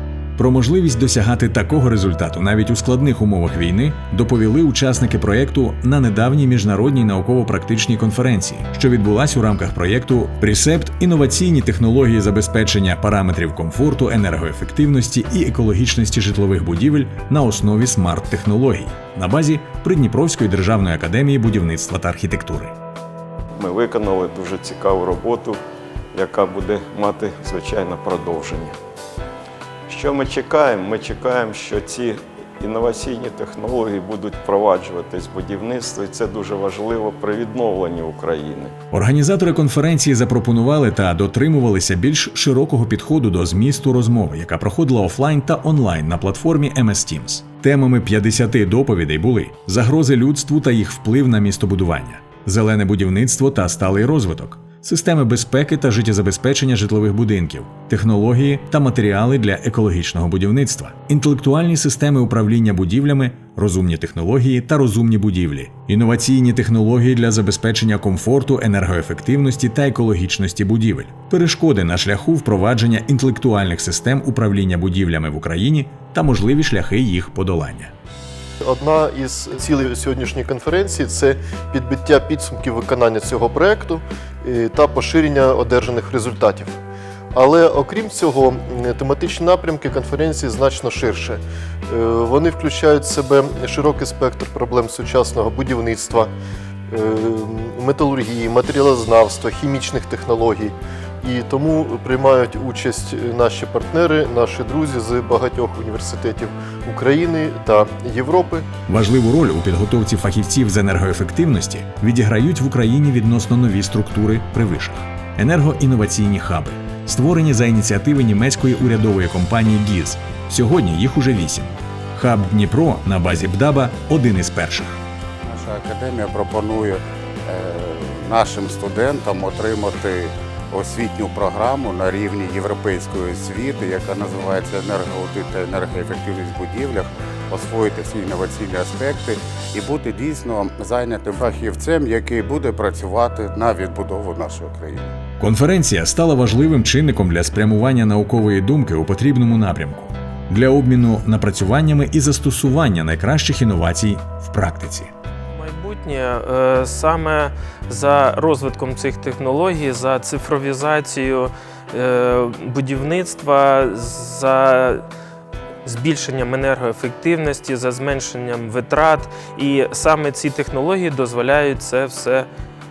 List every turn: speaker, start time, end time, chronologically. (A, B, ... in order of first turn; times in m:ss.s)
0:00.4-0:22.7 A
0:23.6-0:25.6 B
0:26.1-0:28.8 B
0:29.9-0:38.7 B
0:38.9-1:17.9 A
1:18.6-1:26.8 C
1:27.3-1:36.3 C
1:36.9-1:48.6 C
1:48.9-2:05.0 A
2:05.4-2:25.1 D
2:25.4-2:35.1 A
2:35.6-2:45.0 E
2:45.8-2:52.5 E